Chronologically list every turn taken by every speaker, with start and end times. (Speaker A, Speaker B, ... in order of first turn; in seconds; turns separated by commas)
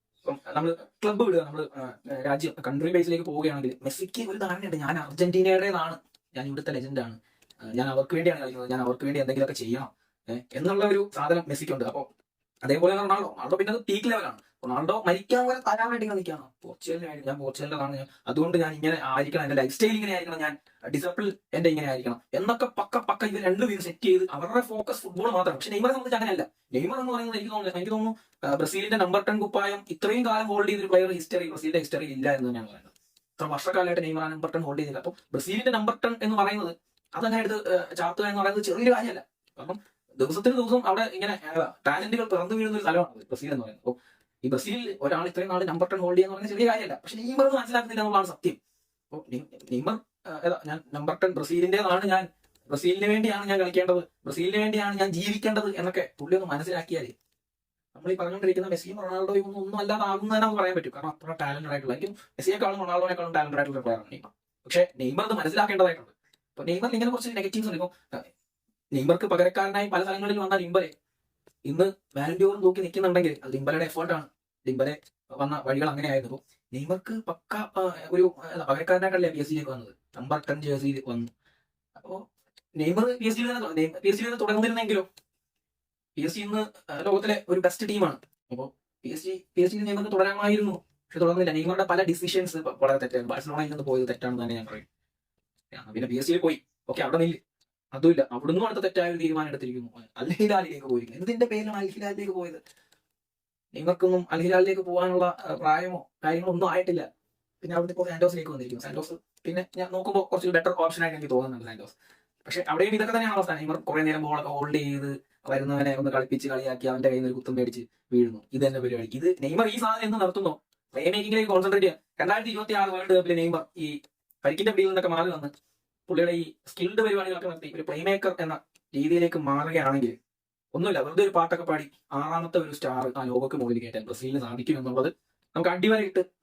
Speaker A: 0.2-12.1, Speaker A: 12.6-48.6, Speaker A: 49.1-57.1, Speaker A: 58.0-68.2, Speaker A: 68.9-70.9, Speaker A: 71.7-81.3, Speaker A: 82.0-82.2, Speaker A: 82.8-85.1, Speaker A: 86.2-94.9, Speaker A: 95.7-97.4, Speaker A: 97.9-102.6, Speaker A: 103.7-107.1, Speaker A: 107.6-111.9, Speaker A: 112.5-125.5, Speaker A: 126.1-130.2, Speaker A: 130.7-136.3